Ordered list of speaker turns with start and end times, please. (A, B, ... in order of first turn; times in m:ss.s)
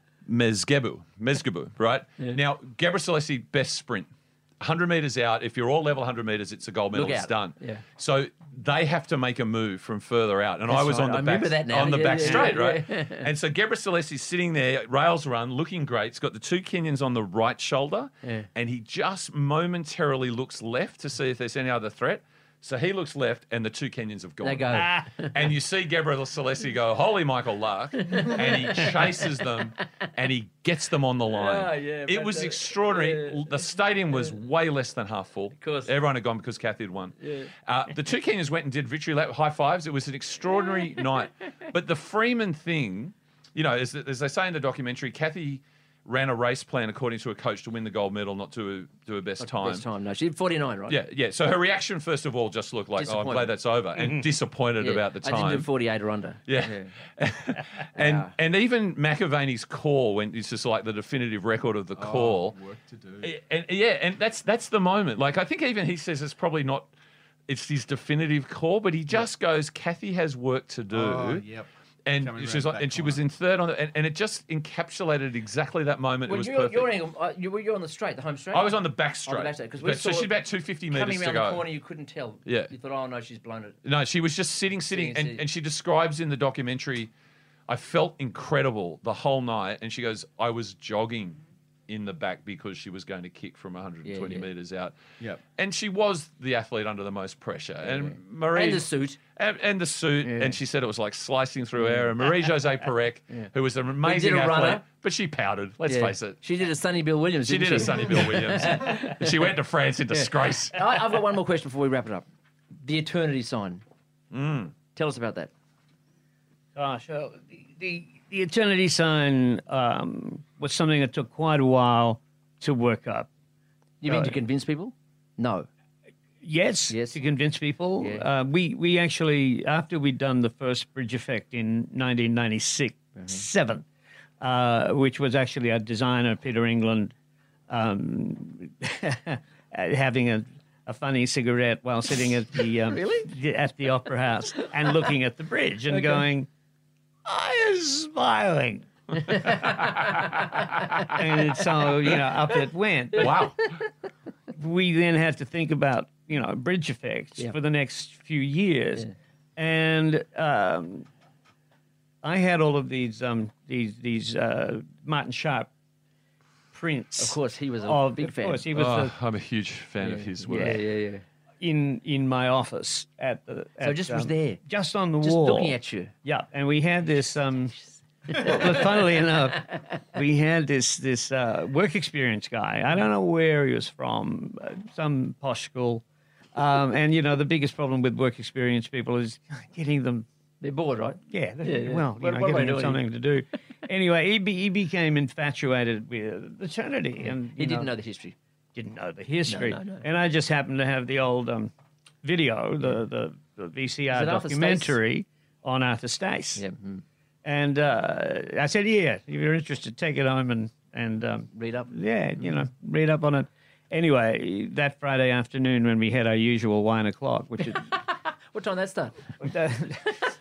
0:00.2-0:49.9 A
0:06.9-0:07.8 B
0:10.7-0:13.3 B
0:12.2-0:12.5 C
0:24.4-0:25.5 B
0:24.8-0:25.0 C
0:28.0-0:29.5 B
0:31.2-0:33.5 B
0:35.6-0:35.9 B
0:40.6-0:41.2 B
0:49.4-0:51.0 B
0:50.9-0:55.7 A
0:53.0-0:53.5 B
0:54.0-0:54.3 C
0:54.8-0:56.9 B
0:56.5-1:02.6 A
0:58.0-0:58.3 B
1:02.0-1:03.3 D
1:03.2-1:06.9 A
1:07.5-1:11.4 A
1:10.9-1:13.2 D
1:12.1-1:16.9 A
1:16.3-1:20.3 B
1:18.5-1:21.6 A
1:20.9-1:23.8 B
1:22.4-1:22.7 A
1:23.8-1:27.1 A
1:24.9-1:25.4 B
1:27.7-1:35.0 A
1:34.0-1:34.5 B
1:35.6-1:46.4 A
1:37.8-1:39.2 B
1:40.2-1:40.6 B
1:41.8-1:42.1 B
1:44.0-1:44.8 B
1:45.9-1:49.5 B
1:47.5-1:50.8 A
1:50.1-1:52.3 B
1:52.8-1:53.8 B
1:54.3-1:54.7 A
1:55.0-1:55.5 B
1:56.8-2:03.3 C
2:04.0-2:05.7 B
2:04.1-2:04.4 C
2:06.4-2:13.8 C
2:06.9-2:07.2 B
2:08.0-2:08.3 B
2:13.2-2:13.4 B
2:14.4-2:17.1 C
2:17.7-2:26.5 C
2:22.8-2:23.3 B
2:25.9-2:26.2 B
2:27.2-2:28.9 C
2:29.2-2:30.4 B
2:29.5-2:30.2 A
2:31.1-2:33.4 C
2:33.2-2:33.8 A
2:34.6-2:41.1 C
2:42.2-2:45.7 C
2:46.7-2:49.1 C
2:47.2-2:48.7 B
2:48.7-2:50.9 A
2:50.0-2:51.2 B
2:50.5-2:50.8 C
2:51.6-2:57.8 C
2:53.8-2:54.6 B
2:55.2-2:56.1 B
2:58.3-2:59.0 B
2:58.3-3:06.0 C
3:06.6-3:10.3 C
3:10.6-3:13.0 B
3:11.3-3:17.9 C
3:17.6-3:18.4 B
3:18.8-3:21.7 C
3:19.5-3:20.0 B
3:22.2-3:26.6 C
3:24.1-3:25.0 B
3:26.6-3:27.0 B
3:27.4-3:37.9 C
3:31.5-3:31.9 B
3:37.8-3:39.2 B
3:39.4-3:40.2 C